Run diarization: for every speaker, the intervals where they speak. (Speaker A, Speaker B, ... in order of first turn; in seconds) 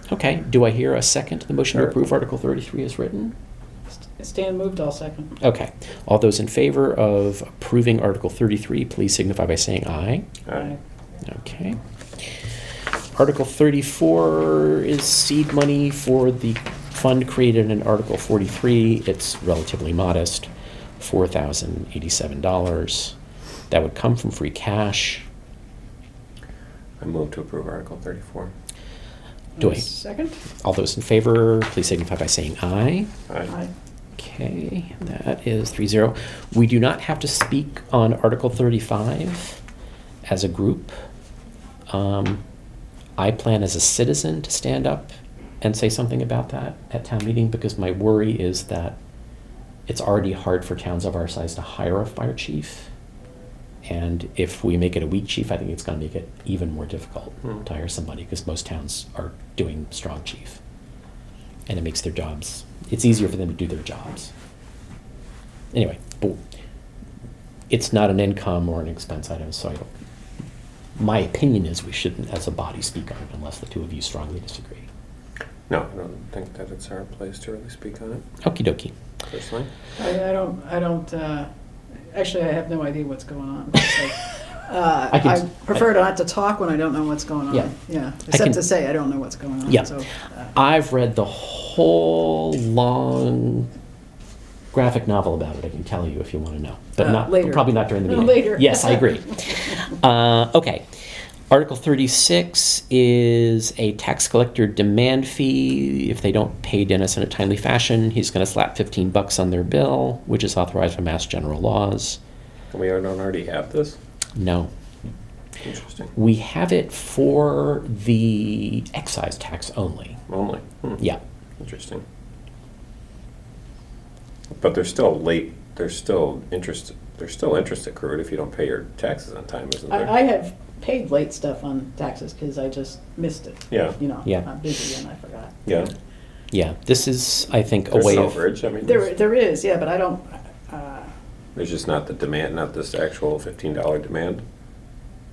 Speaker A: 0.1-3.3, 5.4-10.3, 11.2-12.4, 13.1-23.1, 23.7-25.2, 29.6-29.9, 30.6-33.1, 34.2-39.6, 40.2-40.9, 41.9-42.4, 43.2-49.0, 49.9-52.9, 53.8-60.6, 61.7-64.3, 65.7-66.4, 67.7-69.9, 71.0-74.9, 78.4-79.0, 85.1-85.8, 88.3-88.6, 89.7-89.9, 90.5-93.7, 94.7-100.8, 101.5-112.2, 114.4-114.7, 116.2-120.2, 136.5-138.5
Speaker B: 4.0-5.3, 29.6-30.4, 80.0-81.5, 82.1-90.5, 97.0-99.2, 129.9-135.6, 138.8-141.1
Speaker C: 10.5-10.8, 27.0-28.5, 75.7-78.3, 79.2-79.7, 112.7-114.0, 115.6-116.1, 120.3-121.0, 121.6-122.0, 124.6-130.1, 133.7-134.0, 135.7-135.9, 137.9-139.1, 141.6-144.4